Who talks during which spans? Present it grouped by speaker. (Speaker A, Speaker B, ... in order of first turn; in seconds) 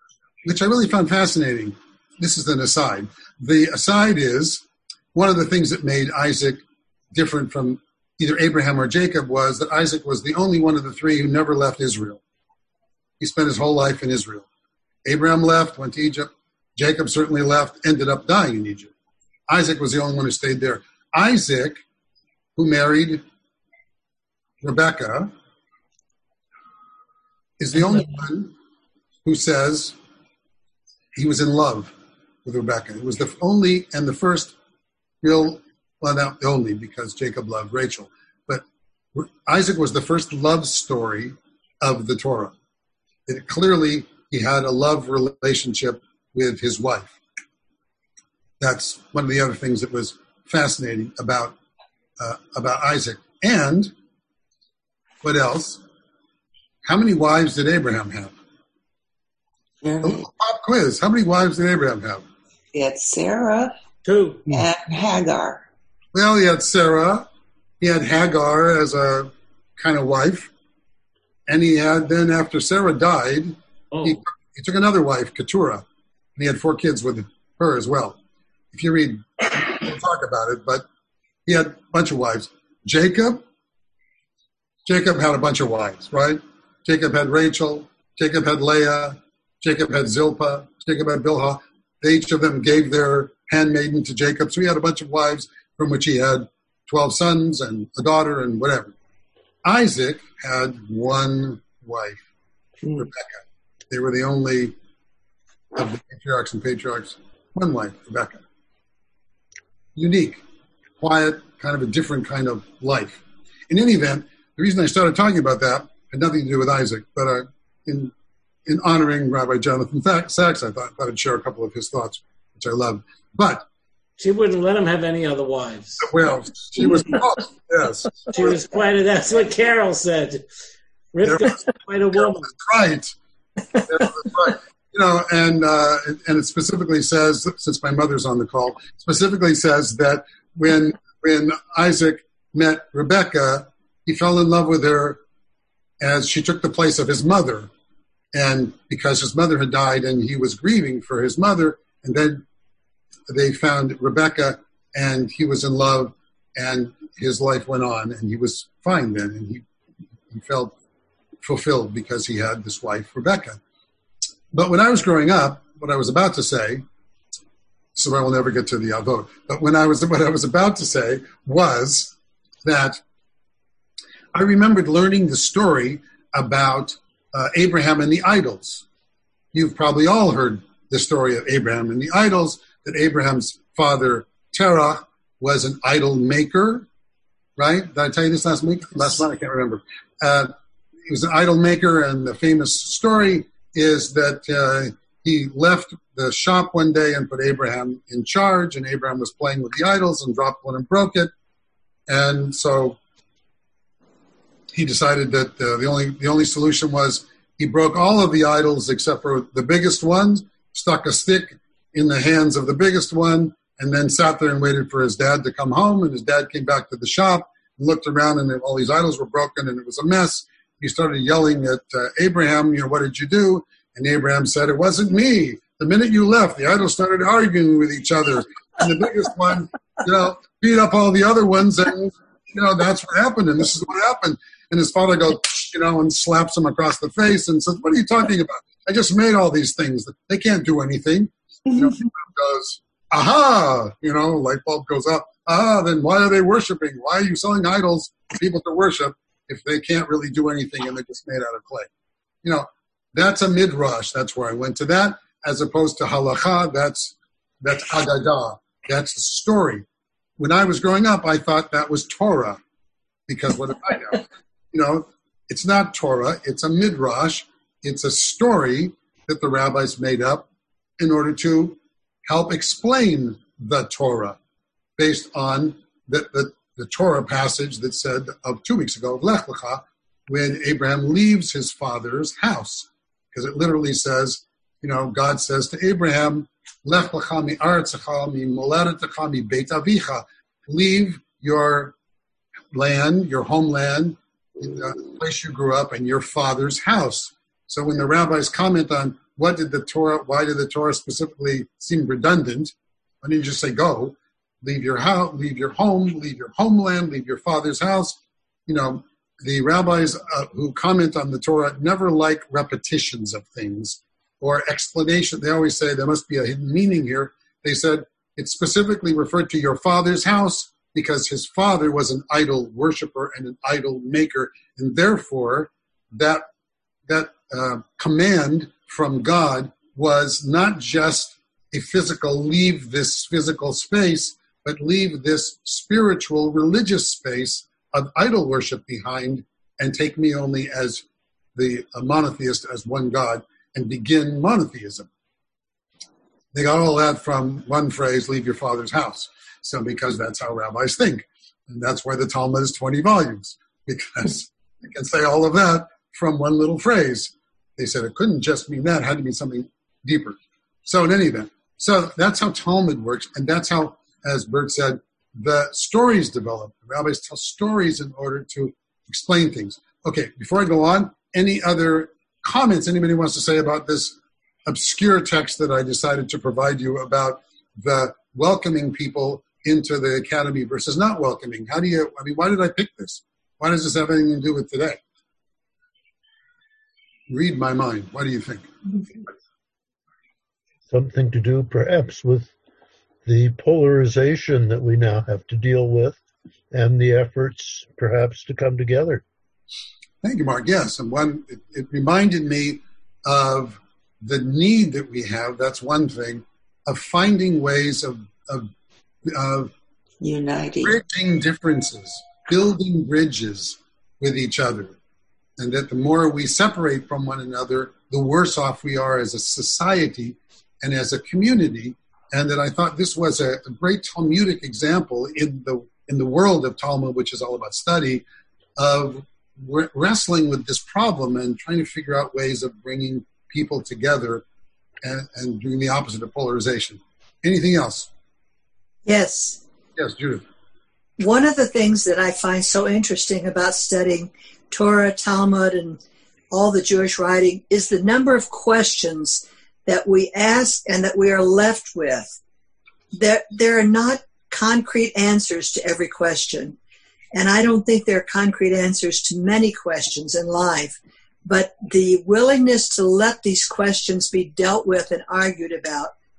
Speaker A: 0.4-4.6, 5.1-6.6, 7.1-12.2, 13.2-14.5, 15.1-18.9, 19.5-21.8, 22.6-23.2, 24.6-25.3, 27.6-28.5, 29.2-29.9, 31.1-31.9, 32.4-34.5, 35.2-38.6, 39.1-42.5, 43.3-47.2, 48.6-51.5, 52.2-53.9, 55.2-55.8, 56.8-58.3, 60.0-62.2, 66.1-67.3, 67.8-70.5, 71.5-75.8, 76.3-78.2, 78.7-80.8, 81.5-83.4, 84.8-98.9, 99.6-102.2, 103.0-104.7, 105.8-108.4, 110.0-110.4, 111.0-118.1, 118.7-123.6, 126.0-128.4, 131.2-131.6, 132.1-133.2, 133.9-145.2, 146.0-147.7, 148.3-152.4, 153.3-159.6, 160.3-160.7, 161.4-163.6, 164.5-166.8, 167.9-172.1, 172.6-173.0, 174.3-178.8, 179.5-186.8, 187.6-190.5, 191.1-201.3, 202.1-203.0, 204.7-251.9, 252.4-259.8, 260.4-262.6, 263.3-270.5, 271.0-274.4, 275.0-291.9, 292.7-326.4, 327.1-341.0, 341.6-345.1, 346.5-374.1, 374.6-385.0, 387.3-388.7, 400.2-408.7, 409.3-409.7, 410.8-414.9, 415.6-428.2, 428.8-434.4, 435.0-438.1, 439.9-440.4
Speaker B: 59.8-60.2, 62.7-63.7, 64.5-65.6, 410.2-411.0
Speaker C: 64.0-64.4, 73.9-74.2, 124.2-126.1, 128.3-130.4, 131.1-132.5
Speaker D: 390.9-392.5, 393.2-396.2, 396.7-399.2
Speaker E: 439.1-439.6, 441.2-446.0, 446.5-452.4, 453.1-456.8, 457.3-466.1